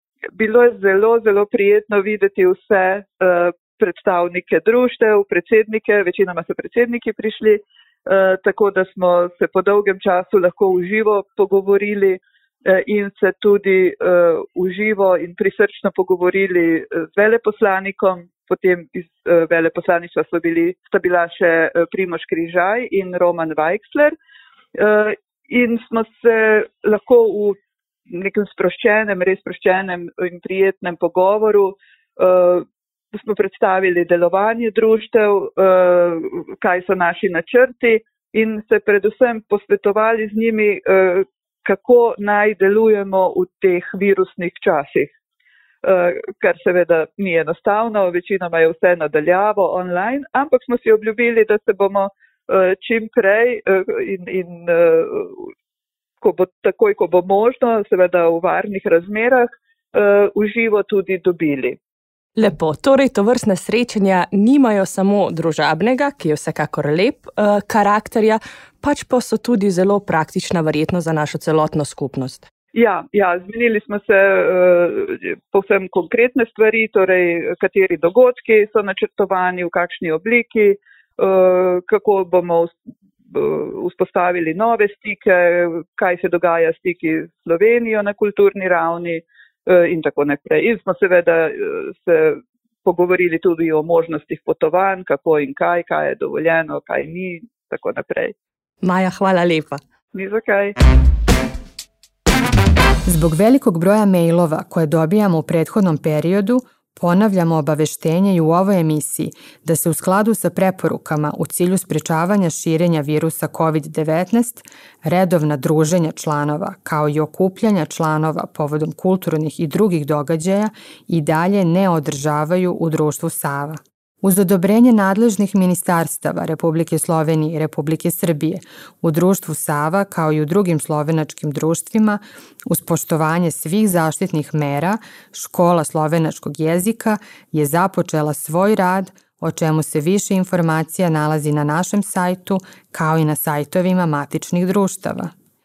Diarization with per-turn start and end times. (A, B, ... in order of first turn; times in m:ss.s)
0:00.4-0:24.2 A
0:24.7-0:27.6 A
0:28.1-0:45.1 A
0:45.8-0:55.5 A
0:56.2-1:01.8 A
1:02.4-1:12.5 B
1:12.7-1:22.8 A
1:23.3-1:38.3 A
1:38.8-1:39.8 B
1:40.1-1:40.7 A
1:43.0-2:25.3 C